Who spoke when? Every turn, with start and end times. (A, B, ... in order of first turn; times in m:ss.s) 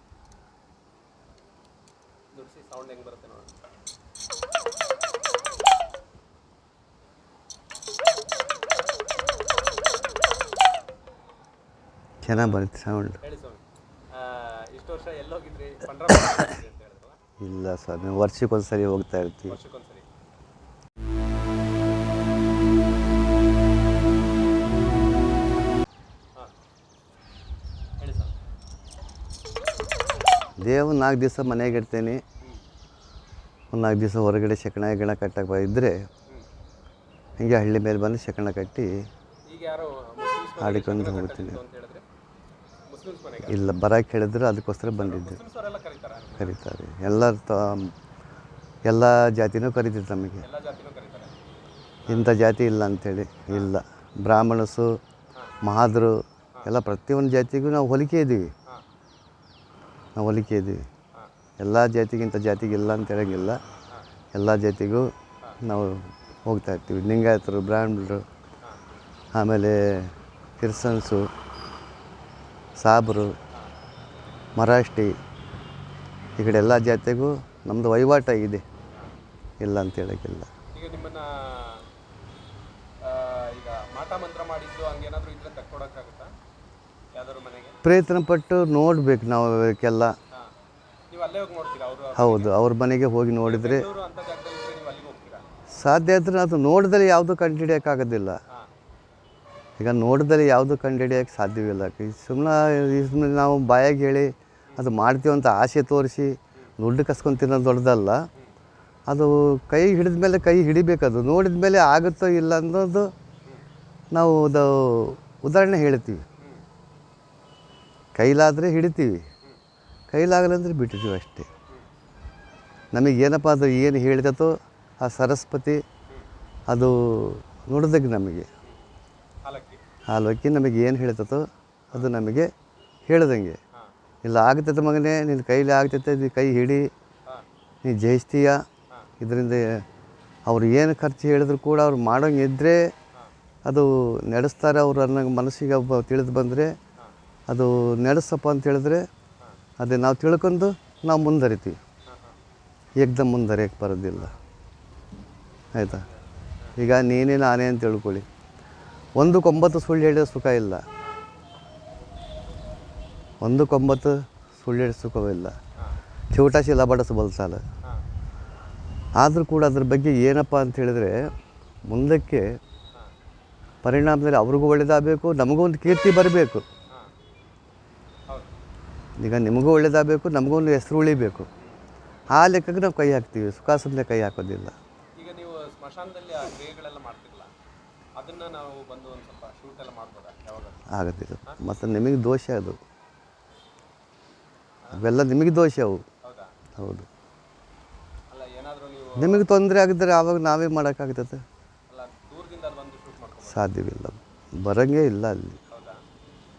0:02.3-0:03.5 A
0:12.2-0:13.2 B
0:12.3-0:12.6 A
0:13.2-0:13.6 A
0:14.1-0:17.2 A
0:17.4-0:19.6 B
0:19.5-0:20.0 A
0:28.0-0:28.3 A
0:30.6-0:32.2 B
0:33.7-0:36.0 B
0:37.4-0:38.9 B
0:39.5-0:42.0 A
0:40.6-0:41.6 B
0:42.9-0:43.6 A
0:43.4-0:45.4 B
0:45.0-0:46.6 A
0:46.4-0:47.9 B
0:48.8-0:50.4 B
0:50.4-0:51.4 A
0:52.0-0:52.3 A
0:52.1-0:55.0 B
0:55.6-0:58.5 B
1:00.2-1:00.8 B
1:01.6-1:03.6 B
1:04.3-1:05.1 B
1:05.6-1:08.2 B
1:09.3-1:11.3 B
1:12.8-1:13.3 B
1:14.6-1:15.1 B
1:16.4-1:18.6 B
1:19.6-1:20.5 B
1:20.7-1:21.8 A
1:23.0-1:26.3 A
1:27.2-1:27.8 A
1:27.8-1:30.2 B
1:31.1-1:32.6 A
1:32.2-1:33.9 B
1:33.4-1:35.5 A
1:35.7-1:38.4 B
1:39.8-1:48.2 B
1:49.1-1:53.1 B
1:54.1-1:56.2 B
1:58.2-1:59.2 B
2:00.1-2:01.5 B
2:02.9-2:05.8 B
2:06.7-2:08.5 B
2:08.6-2:08.9 A
2:09.4-2:09.8 A
2:10.1-2:12.5 B
2:13.1-2:13.6 B
2:14.2-2:16.9 B
2:17.8-2:18.6 B
2:19.2-2:19.6 B
2:20.5-2:22.9 B
2:23.6-2:26.7 B
2:27.5-2:29.0 B
2:29.8-2:31.8 B
2:32.1-2:32.4 A
2:33.0-2:34.3 B
2:35.8-2:36.0 B
2:36.8-2:38.2 B
2:39.2-2:40.8 B
2:43.4-2:45.6 B
2:46.3-2:47.6 B
2:49.2-2:51.2 B
2:51.9-2:52.5 B
2:53.8-2:56.6 B
2:59.2-3:01.5 B
3:02.3-3:04.8 B
3:05.2-3:07.5 A
3:08.2-3:10.8 A
3:10.9-3:12.8 B
3:14.9-3:16.0 B
3:16.2-3:16.5 A
3:16.8-3:17.1 B
3:18.3-3:19.5 A
3:19.2-3:21.4 B
3:21.9-3:23.7 A
3:23.4-3:25.6 B
3:25.7-3:26.0 A